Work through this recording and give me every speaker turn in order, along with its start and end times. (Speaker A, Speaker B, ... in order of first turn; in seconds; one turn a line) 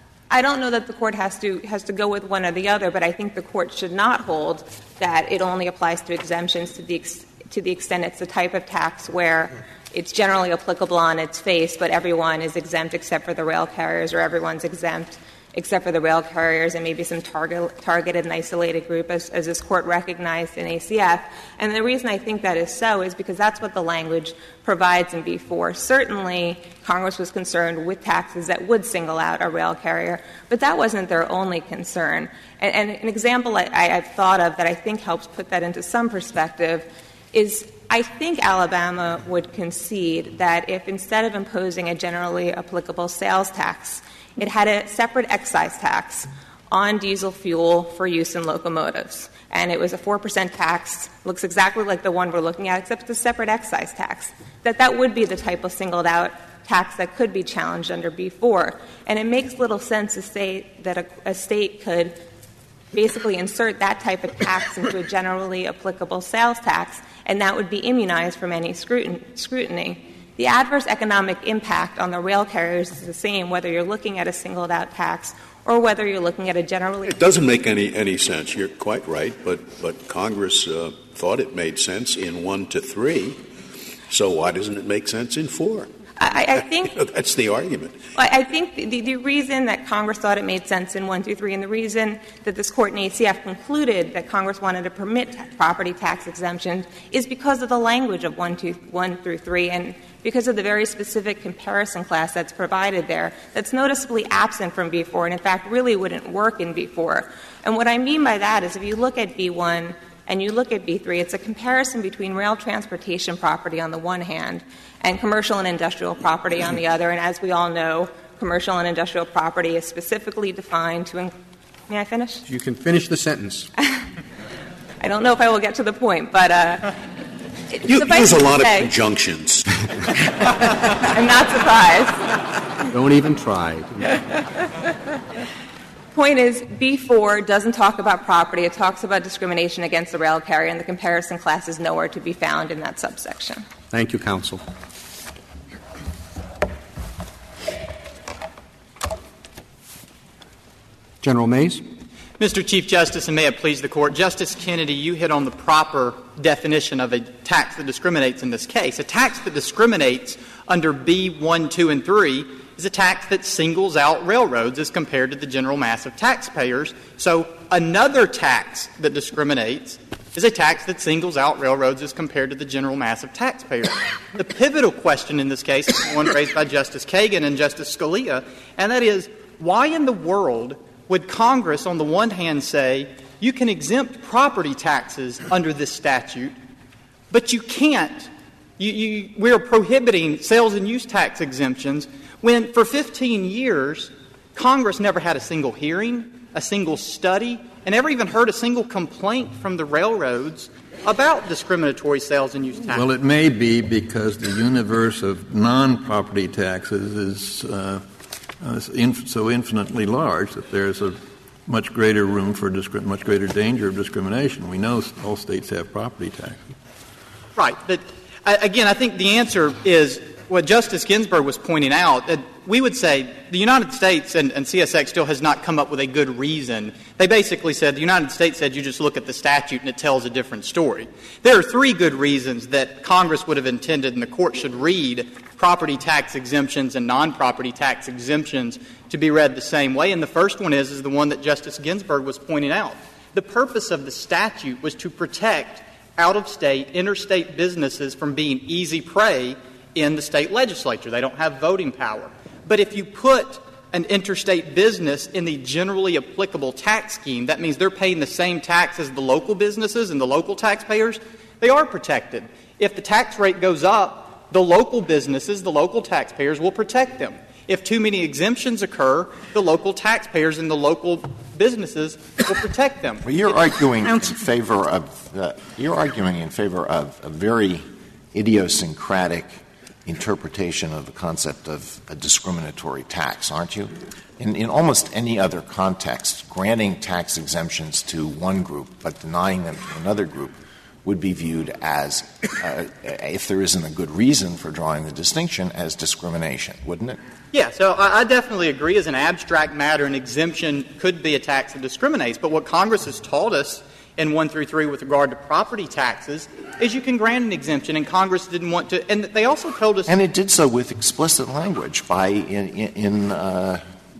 Speaker A: 0.3-62.2
Speaker A: 62.9-77.1
Speaker B: 77.0-83.4
Speaker B: 84.1-85.9
Speaker A: 86.2-87.0
Speaker B: 86.8-88.0
Speaker A: 88.1-121.3
Speaker A: 121.9-122.4
Speaker C: 122.5-123.7
Speaker A: 125.0-127.0
Speaker A: 127.7-128.9
Speaker B: 127.8-129.8
Speaker A: 130.5-132.3
Speaker C: 132.9-134.1
Speaker A: 136.1-143.6
Speaker C: 143.9-144.6
Speaker C: 151.2-151.8
Speaker D: 152.4-186.5
Speaker D: 187.3-203.1
Speaker E: 202.9-208.0
Speaker E: 208.6-216.6
Speaker D: 217.6-273.3
Speaker F: 273.2-297.2
Speaker D: 297.5-310.1
Speaker F: 310.1-313.8